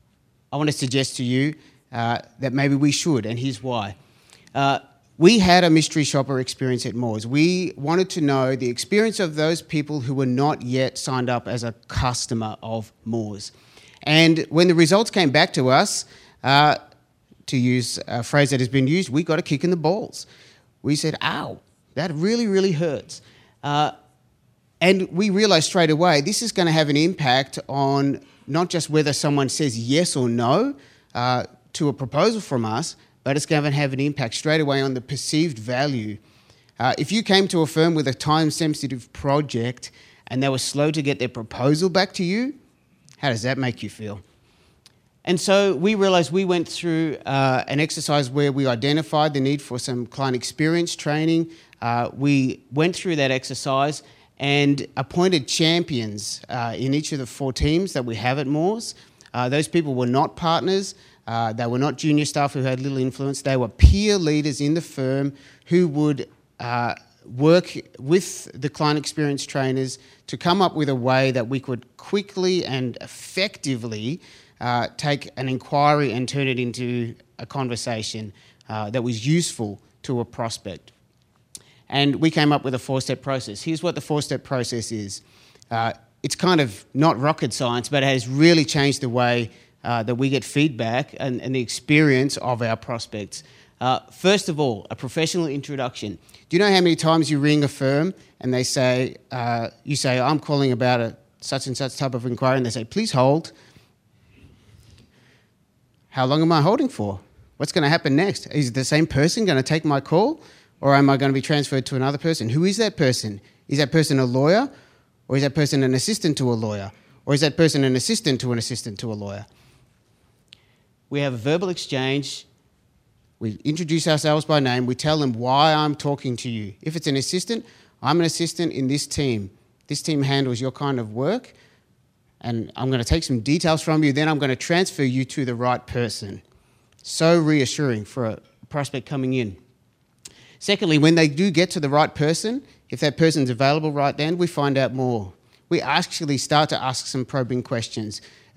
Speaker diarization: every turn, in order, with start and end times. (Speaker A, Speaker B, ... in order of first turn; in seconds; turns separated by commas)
Speaker A: 0.5-4.0, Speaker A: 4.5-13.5, Speaker A: 14.1-16.8, Speaker A: 17.5-20.3, Speaker A: 20.8-23.9, Speaker A: 24.8-36.2, Speaker A: 36.8-42.6, Speaker A: 43.2-44.2, Speaker A: 45.2-80.9, Speaker A: 81.9-103.5, Speaker A: 106.1-114.7, Speaker A: 115.3-119.5, Speaker A: 121.1-122.5, Speaker A: 123.4-131.6, Speaker A: 132.4-136.4, Speaker A: 137.0-139.6, Speaker A: 140.6-148.2